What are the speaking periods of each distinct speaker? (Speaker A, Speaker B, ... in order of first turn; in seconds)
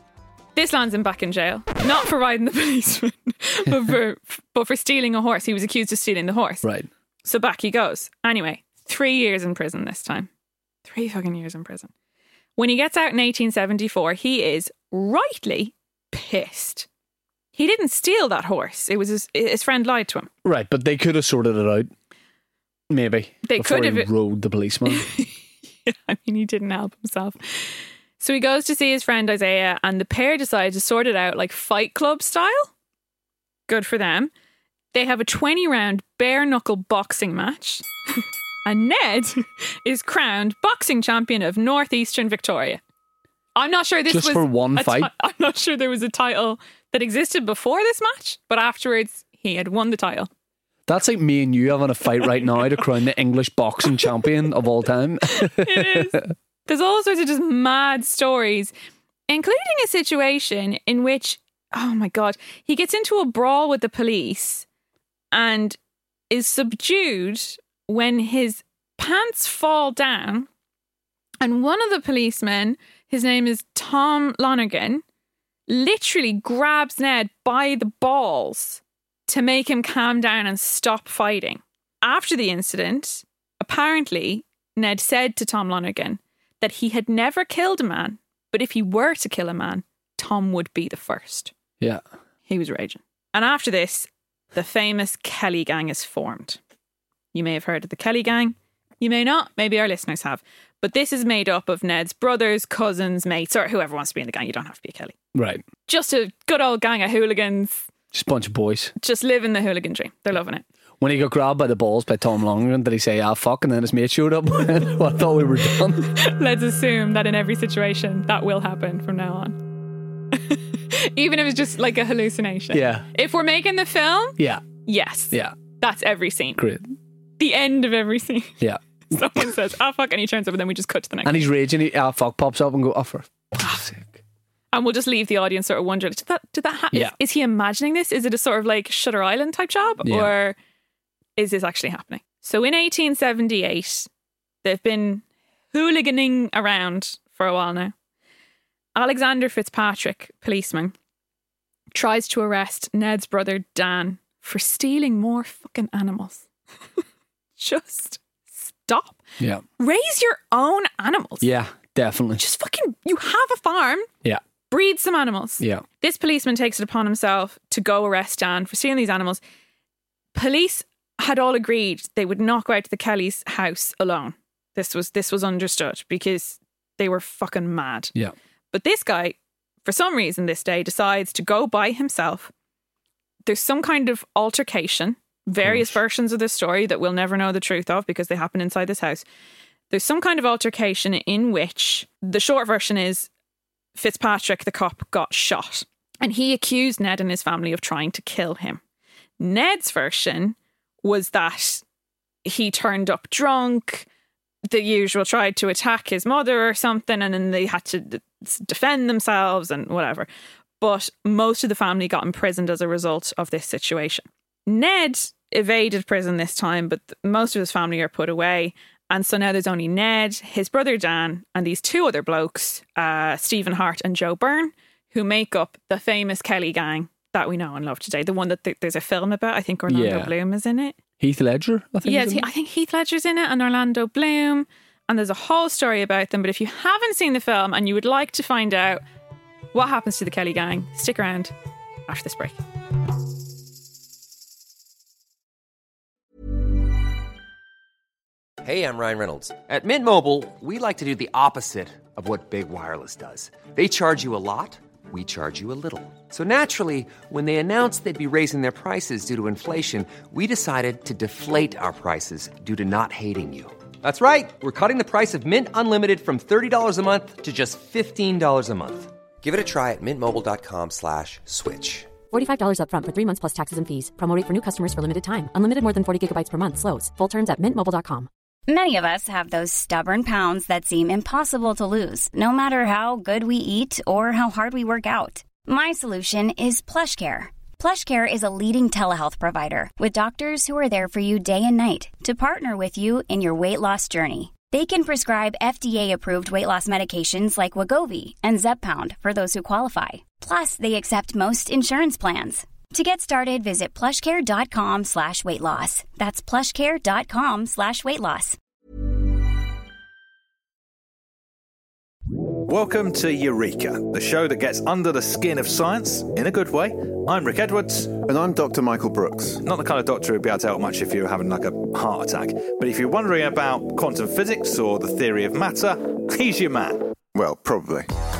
Speaker A: 0.5-6.6, 7.2-10.3, 10.8-11.9, 12.6-16.9, 17.5-20.3, 23.4-24.1, 24.9-32.7, 33.7-34.3, 34.9-42.8, 43.5-50.3, 55.3-58.7, 59.3-64.7, 65.3-65.8, 66.3-70.5, 71.4-75.0, 75.7-91.5, 92.5-96.6, 97.3-105.1, 105.9-107.9, 109.0-110.6, 116.0-119.6, 120.3-126.6, 127.4-131.5, 134.7-140.6, 141.4-144.1, 144.6-147.9, 148.9-150.9, 151.9-156.4, 157.6-159.2, 159.8-161.5, 162.4-164.1, 164.7-169.4, 170.3-178.1, 178.7-182.5, 183.4-189.2, 189.9-193.3, 193.9-198.8, 199.4-201.8, 202.4-204.1, 204.7-210.3, 210.8-230.9, 232.0-239.0, 239.7-241.5, 242.1-242.6
Speaker B: 6.6-6.9, 20.4-21.9, 22.9-25.1, 44.1-45.1, 50.9-56.3, 105.3-105.6, 108.1-108.9, 111.0-116.1, 122.7-123.0, 124.4-124.7, 126.6-126.9, 131.2-134.2, 140.0-140.3, 161.4-162.4, 185.6-186.0, 229.9-230.3, 231.2-232.5
Speaker C: 248.6-272.1
Speaker D: 272.3-278.3
Speaker E: 278.7-308.6
Speaker F: 312.6-318.1, 319.6-327.1
Speaker G: 318.2-319.6, 327.3-328.1